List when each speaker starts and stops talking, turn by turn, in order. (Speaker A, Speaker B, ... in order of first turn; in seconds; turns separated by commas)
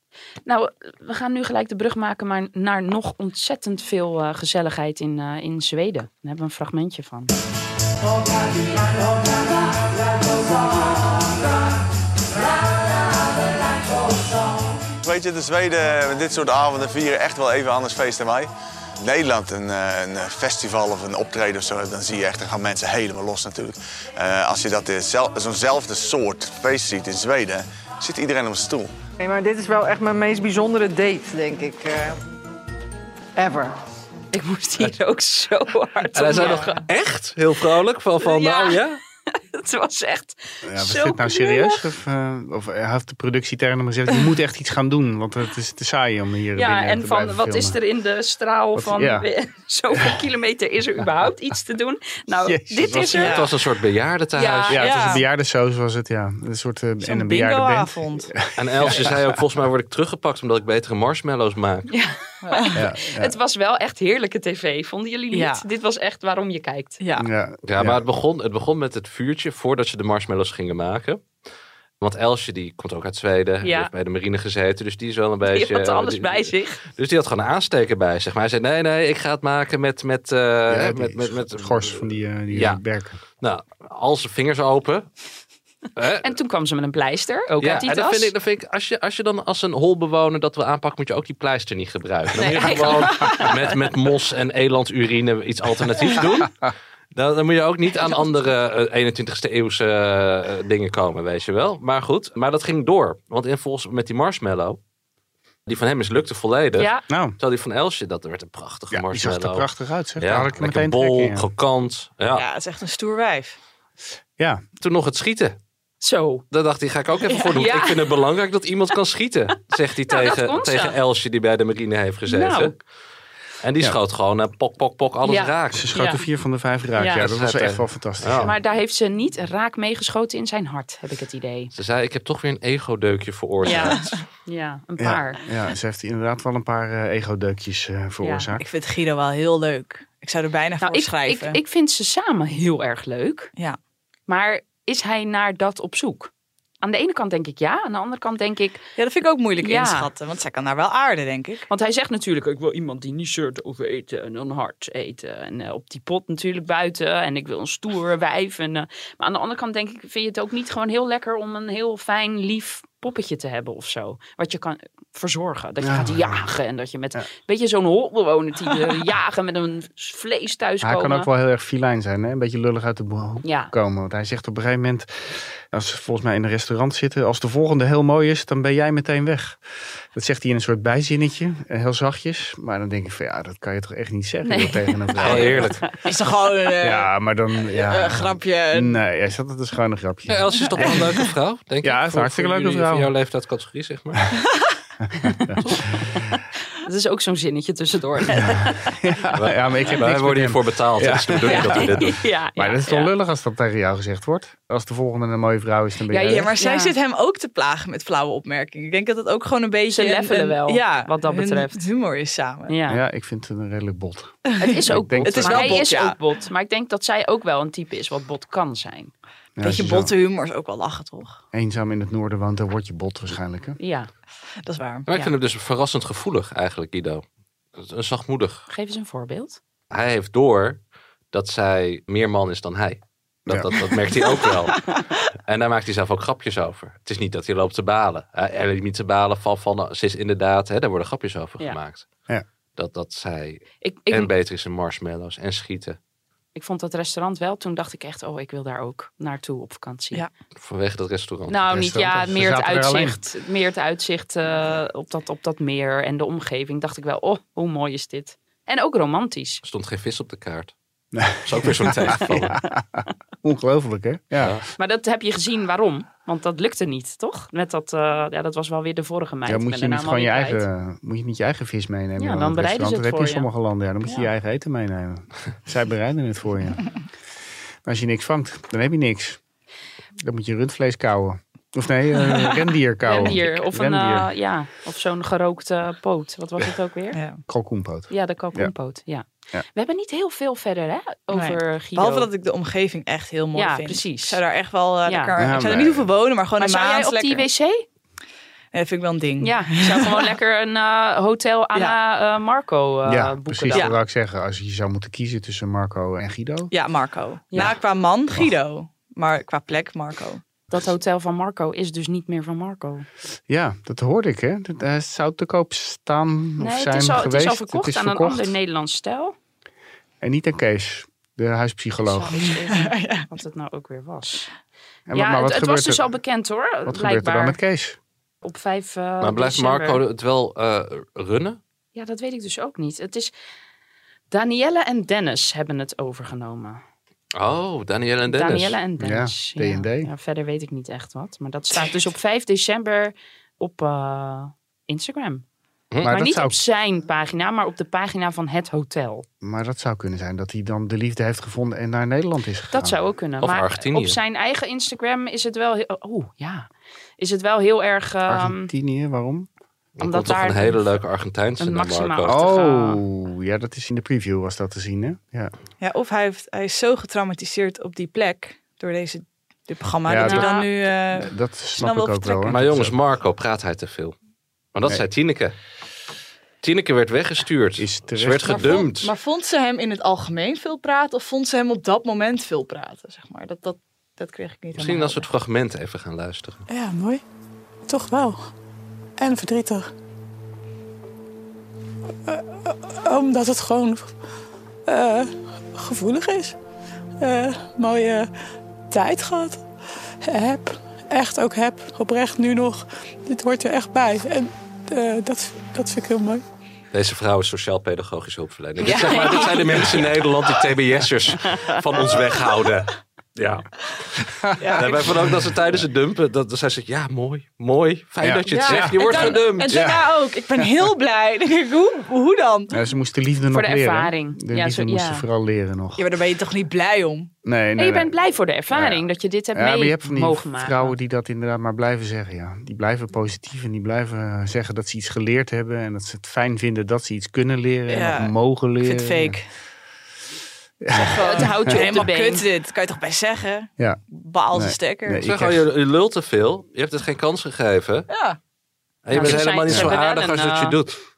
Speaker A: 0.5-7.3, Speaker B: 15.0-28.9, Speaker C: 29.2-32.2, Speaker C: 33.4-33.7, Speaker A: 34.3-36.7, Speaker D: 36.1-39.0, Speaker E: 36.2-36.8, Speaker A: 38.2-38.8, Speaker A: 39.4-41.8, Speaker F: 40.6-47.8, Speaker A: 46.5-53.4, Speaker F: 48.7-49.3, Speaker F: 52.4-53.4, Speaker E: 53.1-53.5, Speaker D: 53.2-54.9, Speaker A: 54.4-54.8, Speaker F: 54.7-59.3, Speaker E: 54.8-55.2, Speaker E: 57.0-58.3, Speaker D: 58.5-61.9, Speaker A: 61.9-67.0, Speaker E: 62.4-62.8, Speaker F: 62.8-63.3, Speaker E: 65.3-65.6, Speaker E: 67.0-67.3, Speaker F: 67.2-68.0, Speaker D: 67.7-71.2, Speaker D: 72.0-82.8, Speaker A: 73.6-73.9, Speaker A: 75.5-76.8, Speaker F: 80.7-83.2, Speaker D: 83.4-85.1, Speaker D: 86.0-86.3, Speaker A: 86.2-88.3, Speaker D: 87.6-104.8, Speaker A: 92.4-93.5, Speaker D: 105.7-109.7, Speaker A: 106.7-107.0, Speaker F: 107.1-107.4, Speaker F: 108.9-111.4, Speaker D: 110.2-112.4, Speaker E: 112.3-113.5, Speaker F: 114.4-114.6, Speaker D: 114.8-115.5, Speaker A: 116.0-116.4, Speaker D: 116.5-122.8, Speaker A: 117.5-118.0, Speaker A: 120.1-121.0, Speaker A: 122.3-122.7, Speaker D: 123.6-125.9, Speaker A: 125.2-126.2, Speaker F: 125.7-128.6, Speaker A: 127.0-127.2, Speaker D: 127.2-128.5, Speaker A: 128.4-131.7, Speaker D: 131.7-134.1, Speaker A: 133.6-135.4, Speaker E: 133.7-134.2, Speaker F: 135.0-138.7, Speaker A: 138.2-138.5, Speaker E: 138.6-141.6, Speaker A: 140.8-143.5, Speaker A: 144.3-146.3, Speaker A: 146.8-148.8, Speaker E: 149.0-151.7, Speaker A: 149.6-150.1, Speaker A: 151.7-171.3, Speaker F: 165.8-166.5, Speaker F: 170.8-185.7, Speaker A: 173.4-173.7, Speaker A: 184.4-185.9, Speaker D: 185.2-185.8, Speaker E: 186.0-187.1, Speaker F: 186.8-190.9, Speaker E: 187.7-189.0, Speaker D: 190.3-194.3, Speaker F: 191.8-193.1, Speaker F: 195.2-195.6, Speaker A: 196.8-198.9, Speaker F: 198.4-206.5, Speaker D: 199.3-202.2, Speaker A: 201.4-203.1, Speaker A: 206.1-206.9, Speaker E: 206.3-212.7, Speaker A: 209.9-211.8, Speaker A: 212.7-213.0, Speaker F: 212.9-215.8, Speaker A: 214.6-219.1, Speaker E: 215.2-216.2, Speaker F: 219.6-220.1, Speaker E: 219.6-221.4, Speaker F: 221.5-223.8, Speaker A: 223.8-224.1, Speaker E: 224.6-225.1, Speaker D: 225.1-227.2, Speaker D: 227.8-228.6, Speaker A: 228.7-229.6, Speaker D: 229.9-230.8, Speaker D: 231.3-234.9, Speaker F: 233.5-233.8, Speaker D: 235.5-242.1, Speaker D: 242.8-246.0, Speaker A: 243.8-244.3, Speaker A: 246.5-250.2, Speaker D: 250.6-251.6, Speaker A: 251.5-259.6, Speaker F: 251.7-253.2, Speaker D: 259.6-260.7, Speaker F: 261.1-264.6, Speaker D: 261.4-262.6, Speaker A: 264.8-270.6, Speaker F: 269.4-276.8, Speaker A: 272.2-273.5, Speaker F: 277.8-279.4, Speaker F: 280.2-284.3, Speaker A: 283.0-287.2, Speaker E: 287.1-287.4, Speaker F: 287.5-288.7, Speaker A: 288.1-292.3, Speaker E: 291.3-297.4, Speaker A: 293.5-294.4, Speaker A: 295.0-295.3, Speaker F: 295.4-296.1, Speaker A: 296.6-297.8, Speaker E: 298.7-300.3, Speaker A: 299.4-303.9, Speaker F: 303.1-306.7, Speaker E: 306.7-310.4, Speaker A: 310.7-313.1, Speaker F: 313.5-318.6, Speaker A: 316.6-319.3, Speaker F: 320.2-322.4, Speaker A: 322.0-324.5, Speaker E: 322.7-323.2, Speaker F: 325.1-326.0, Speaker A: 325.1-327.6, Speaker F: 326.9-328.0, Speaker A: 328.4-330.0, Speaker D: 329.2-331.6, Speaker A: 331.9-333.3, Speaker A: 334.3-336.8, Speaker D: 337.4-338.8, Speaker A: 338.3-345.4, Speaker F: 339.0-340.1, Speaker F: 346.0-346.6, Speaker A: 346.0-349.2, Speaker F: 349.4-353.0, Speaker A: 352.7-356.7, Speaker D: 353.4-354.2, Speaker A: 357.2-358.7, Speaker F: 358.3-359.5, Speaker D: 360.0-362.4, Speaker A: 360.0-360.9, Speaker A: 361.6-363.0, Speaker F: 362.3-365.5, Speaker E: 365.8-372.6, Speaker F: 370.1-370.5, Speaker A: 370.2-370.7, Speaker F: 371.1-372.9, Speaker D: 372.5-374.1, Speaker D: 374.7-375.6, Speaker D: 376.6-379.1, Speaker F: 377.8-378.9, Speaker E: 378.5-385.2, Speaker D: 384.7-386.6, Speaker G: 386.7-387.2, Speaker G: 387.9-388.5, Speaker G: 389.2-389.9, Speaker G: 392.3-394.1, Speaker G: 394.9-396.6, Speaker G: 397.2-398.3, Speaker G: 398.9-399.6, Speaker G: 400.2-406.4, Speaker D: 406.9-414.2, Speaker A: 408.8-409.8, Speaker A: 411.5-411.8, Speaker F: 414.4-415.8, Speaker E: 414.6-415.1, Speaker D: 414.8-419.9, Speaker F: 418.2-420.0, Speaker E: 418.5-422.8, Speaker F: 420.6-420.9, Speaker F: 422.7-426.1, Speaker A: 423.5-425.2, Speaker E: 426.0-427.3, Speaker F: 427.4-428.1, Speaker A: 427.8-430.9, Speaker F: 428.7-439.4, Speaker E: 437.9-439.5, Speaker F: 440.8-442.0, Speaker E: 440.9-445.2, Speaker A: 441.2-442.5, Speaker F: 444.5-445.7, Speaker D: 445.2-448.1, Speaker E: 448.1-448.4, Speaker D: 449.0-450.9, Speaker A: 449.1-450.8